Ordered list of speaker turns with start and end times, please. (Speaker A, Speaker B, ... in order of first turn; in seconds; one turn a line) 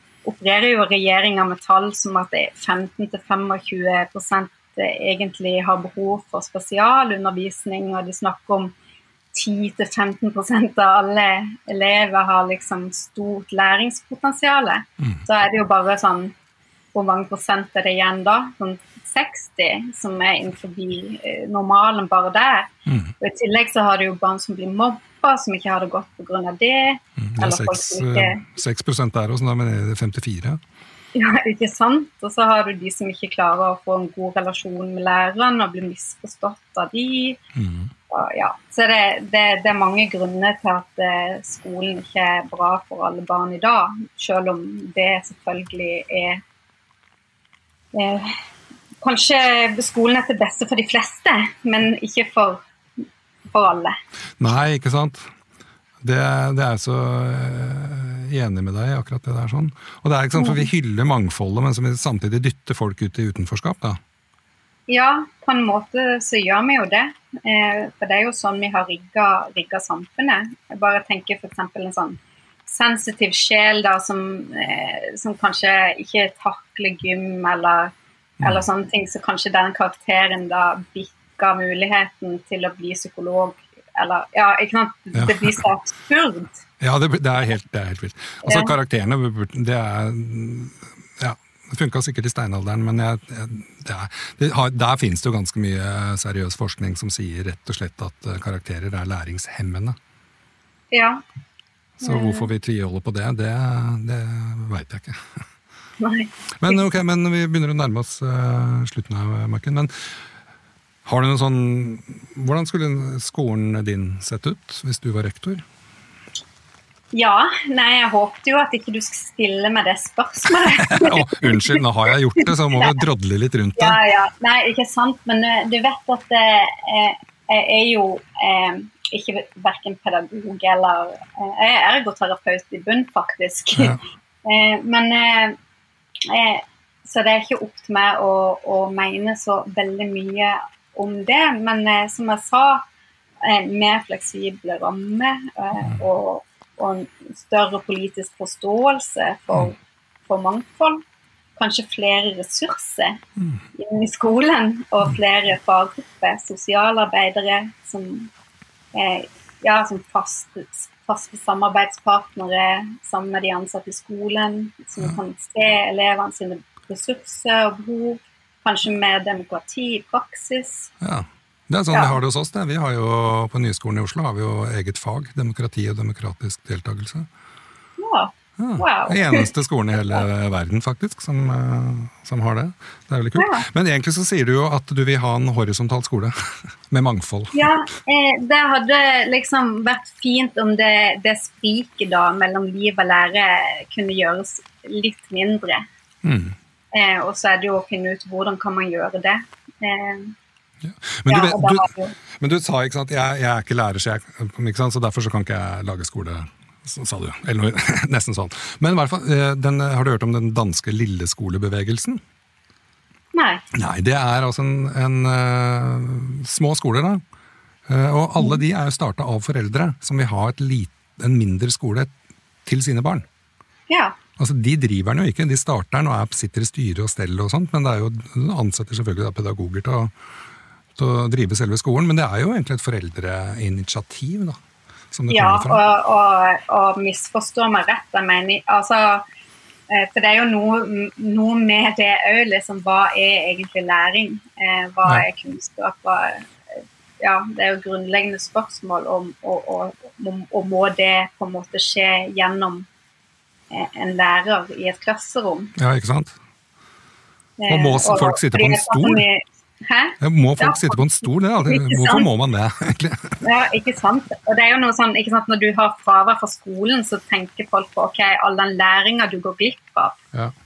Speaker A: 0.2-8.7
Speaker A: 9.3-16.3
Speaker A: 16.9-28.5
Speaker B: 22.9-23.1
Speaker B: 27.2-30.6
Speaker A: 31.1-37.4
Speaker B: 37.6-37.9
Speaker A: 38.1-46.4
Speaker A: 47.9-48.4
Speaker A: 49.0-54.0
Speaker B: 54.4-55.3
Speaker B: 56.0-64.0
Speaker A: 60.4-60.7
Speaker A: 64.9-86.6
Speaker B: 85.1-85.6
Speaker B: 86.8-100.0
Speaker A: 88.4-88.8
Speaker A: 100.9-101.2
Speaker B: 102.0-105.2
Speaker A: 102.0-102.5
Speaker A: 106.0-106.8
Speaker B: 106.6-109.9
Speaker B: 111.0-115.6
Speaker A: 117.1-121.8
Speaker B: 120.7-124.0
Speaker A: 122.4-123.0
Speaker A: 123.8-135.6
Speaker A: 136.3-142.8
Speaker A: 143.4-151.0
Speaker A: 151.6-153.2
Speaker A: 153.8-158.3
Speaker A: 158.9-170.9
Speaker B: 171.0-177.3
Speaker A: 171.9-172.2
Speaker A: 178.0-179.5
Speaker B: 178.6-187.7
Speaker A: 183.4-183.7
Speaker A: 187.5-195.8
Speaker B: 196.2-196.6
Speaker A: 196.9-200.3
Speaker B: 200.8-212.2
Speaker A: 201.3-202.2
Speaker A: 213.3-213.6
Speaker B: 213.7-217.2
Speaker B: 217.9-222.1
Speaker B: 222.7-223.3
Speaker A: 223.9-224.2
Speaker B: 224.4-230.1
Speaker B: 231.0-234.6
Speaker B: 235.1-235.8
Speaker A: 235.3-239.2
Speaker A: 239.9-252.9
Speaker A: 253.7-255.7
Speaker B: 255.8-256.3
Speaker A: 257.6-261.0
Speaker B: 257.7-259.2
Speaker B: 260.2-263.4
Speaker A: 261.6-262.3
Speaker A: 263.4-270.2